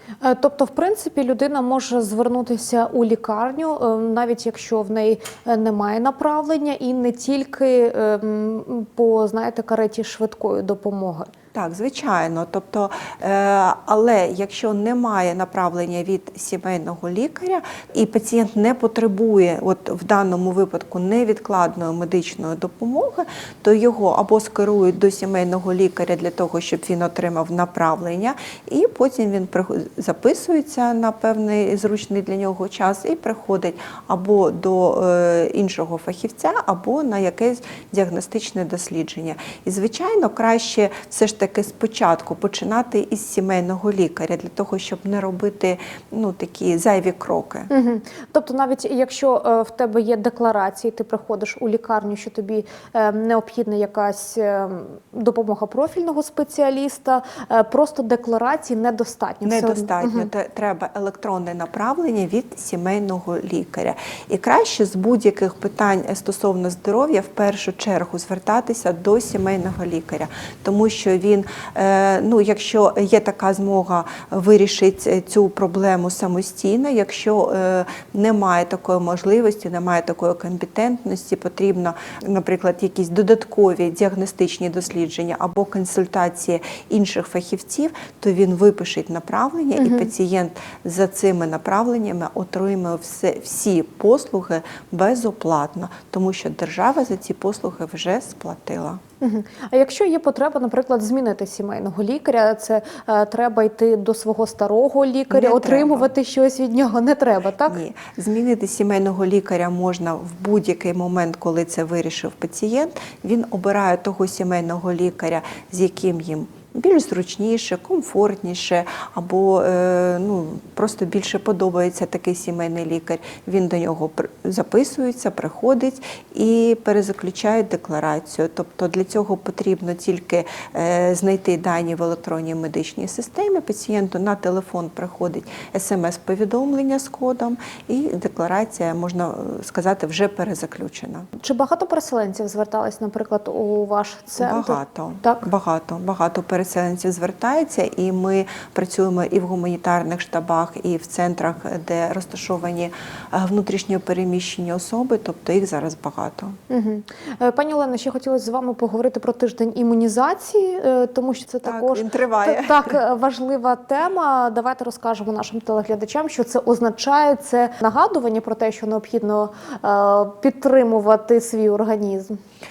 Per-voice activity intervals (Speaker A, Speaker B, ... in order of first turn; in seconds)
Speaker A: 0.2-11.3, 47.7-60.3, 89.8-90.1, 99.2-107.8, 141.4-145.4, 156.7-172.4
Speaker B: 11.5-47.7, 59.5-99.0, 105.3-106.1, 107.7-141.3, 144.4-156.6, 161.6-163.0